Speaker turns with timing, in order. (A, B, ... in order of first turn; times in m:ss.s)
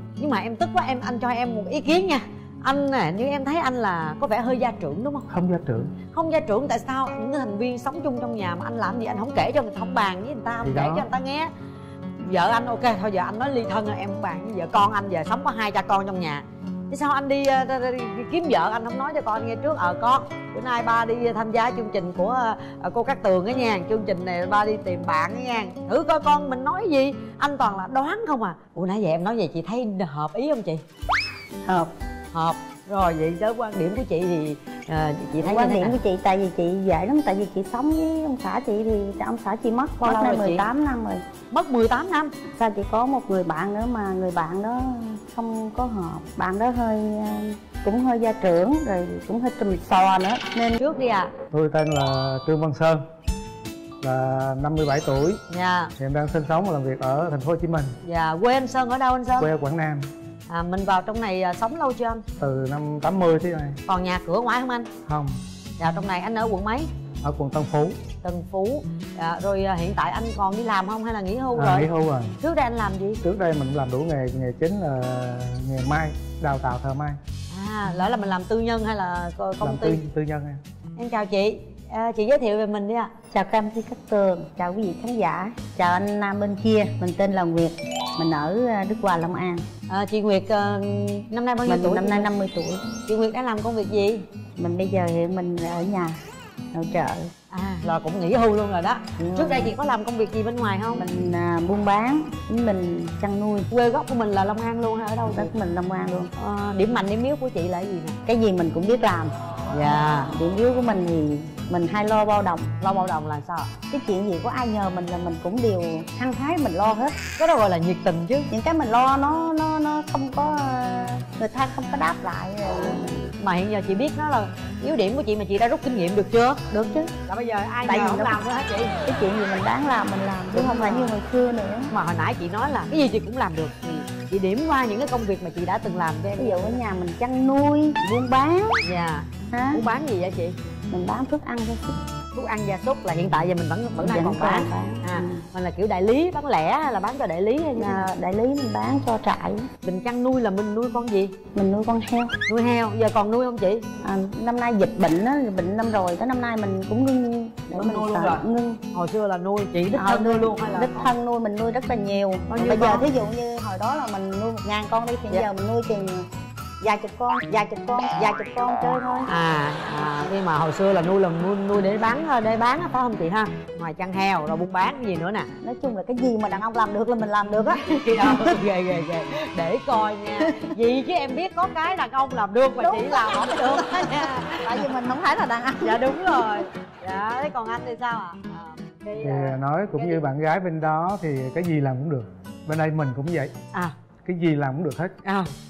0:00.2-0:05.3 A
0:05.3-0:05.9 B
0:06.1-0:11.5 A
0:10.6-0:11.1 B
0:12.2-0:30.8 A
0:31.6-0:31.9 C
0:32.3-0:36.0 A
0:35.4-0:41.2 C
0:40.0-0:40.6 A
0:41.5-0:42.3 A
0:42.5-0:50.8 C
0:50.8-0:51.3 A
0:51.5-0:53.0 B
0:54.0-0:55.4 B
0:55.5-0:55.9 A
0:56.0-0:58.0 B
0:58.0-0:59.5 A
0:59.4-1:00.1 B
1:00.5-1:02.2 A
1:02.4-1:03.8 B
1:03.9-1:04.9 A
1:05.0-1:05.4 B
1:05.8-1:06.9 A
1:07.2-1:08.0 B
1:08.2-1:11.9 A
1:11.5-1:12.3 B
1:12.4-1:13.2 A
1:13.2-1:17.2 B
1:17.5-1:20.0 A
1:19.6-1:20.6 B
1:21.0-1:23.1 A
1:23.3-1:29.7 C
1:29.9-1:32.3 A
1:31.6-1:32.9 C
1:33.0-1:34.2 A
1:34.6-1:36.2 C
1:36.7-1:37.3 C
1:37.5-1:41.0 A
1:39.2-1:39.7 C
1:40.9-1:43.7 C
1:43.7-1:45.5 A
1:45.3-1:46.3 C
1:46.4-1:48.2 A
1:48.2-1:49.3 C
1:49.7-1:50.3 A
1:50.3-1:52.7 C
1:52.8-1:53.7 A
1:53.9-1:57.2 C
1:57.4-1:58.5 A
1:58.5-2:03.3 C
2:02.7-2:06.7 A
2:06.7-2:07.1 C
2:07.3-2:08.9 A
2:07.8-2:08.4 C
2:09.0-2:11.9 C
2:10.5-2:11.1 A
2:11.9-2:16.8 A
2:16.4-2:18.8 C
2:18.8-2:20.5 A
2:19.5-2:19.8 C
2:20.9-2:22.0 C
2:22.3-2:28.1 A
2:24.0-2:25.4 C
2:27.8-2:29.7 C
2:29.8-2:31.4 A
2:31.5-2:32.4 C
2:32.5-2:33.8 A
2:34.0-2:38.8 C
2:37.7-2:41.1 A
2:39.9-2:46.2 C
2:42.5-2:43.1 A
2:46.8-2:49.3 C
2:49.3-2:55.5 A
2:55.6-2:58.6 C
2:57.8-3:04.9 A
3:00.4-3:00.7 C
3:02.8-3:06.6 C
3:05.8-3:10.2 A
3:09.2-3:13.5 B
3:14.2-3:15.2 B
3:15.2-3:15.5 A